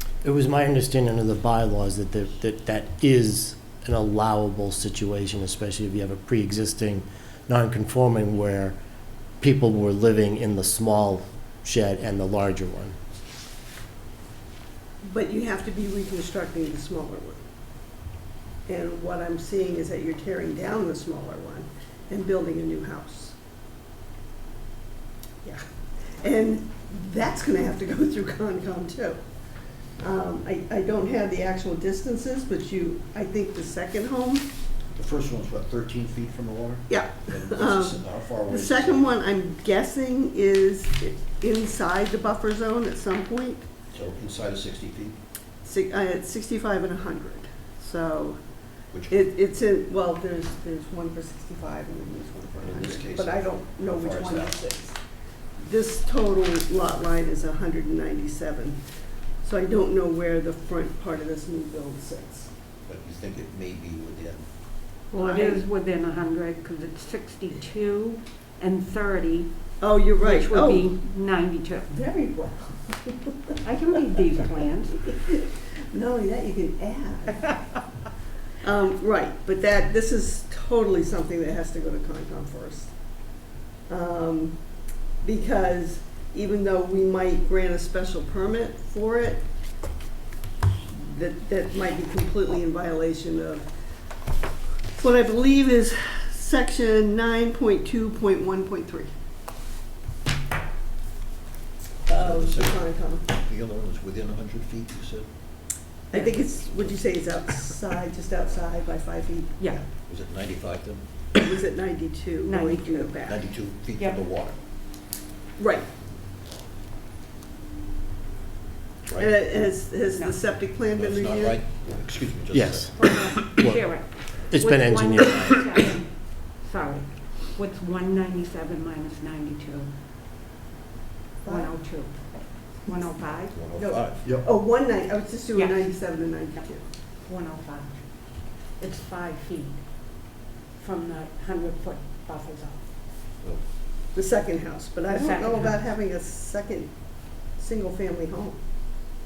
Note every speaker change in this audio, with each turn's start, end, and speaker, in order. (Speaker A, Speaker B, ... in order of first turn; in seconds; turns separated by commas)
Speaker A: 0.2-8.8, Speaker A: 9.4-13.0, Speaker B: 15.0-17.4, Speaker B: 18.7-23.4, Speaker B: 26.2-29.2, Speaker B: 30.0-34.5, Speaker C: 34.9-39.1, Speaker B: 36.9-43.6, Speaker C: 43.9-45.2, Speaker B: 45.6-48.4, Speaker C: 48.9-49.3, Speaker B: 49.1-55.0, Speaker C: 52.6-54.6, Speaker B: 55.6-58.8, Speaker B: 59.4-62.5, Speaker C: 62.9-64.5, Speaker B: 65.1-65.6, Speaker D: 65.1-69.5, Speaker B: 69.8-70.9, Speaker D: 70.2-71.9, Speaker B: 71.9-73.6, Speaker D: 73.6-75.1, Speaker B: 75.1-77.6, Speaker B: 78.6-82.9, Speaker B: 83.9-84.6, Speaker B: 85.2-89.4, Speaker B: 90.8-93.7, Speaker B: 95.0-99.1, Speaker B: 102.1-103.2, Speaker C: 102.1-105.3, Speaker B: 106.1-109.8, Speaker D: 106.1-106.4, Speaker C: 110.1-111.0, Speaker B: 111.3-113.4, Speaker D: 112.4-113.2, Speaker C: 113.2-114.6, Speaker B: 115.6-115.9, Speaker B: 119.2-121.6, Speaker D: 120.1-120.4, Speaker C: 120.9-123.1, Speaker A: 122.5-123.0, Speaker D: 123.0-129.9, Speaker A: 123.6-123.9, Speaker A: 124.5-125.6, Speaker B: 131.4-131.7, Speaker D: 131.4-133.6, Speaker C: 133.5-134.4, Speaker B: 133.7-136.8, Speaker D: 137.2-138.0, Speaker D: 138.8-139.8, Speaker D: 140.8-142.8, Speaker B: 144.1-146.9, Speaker D: 145.1-145.8, Speaker B: 147.6-148.6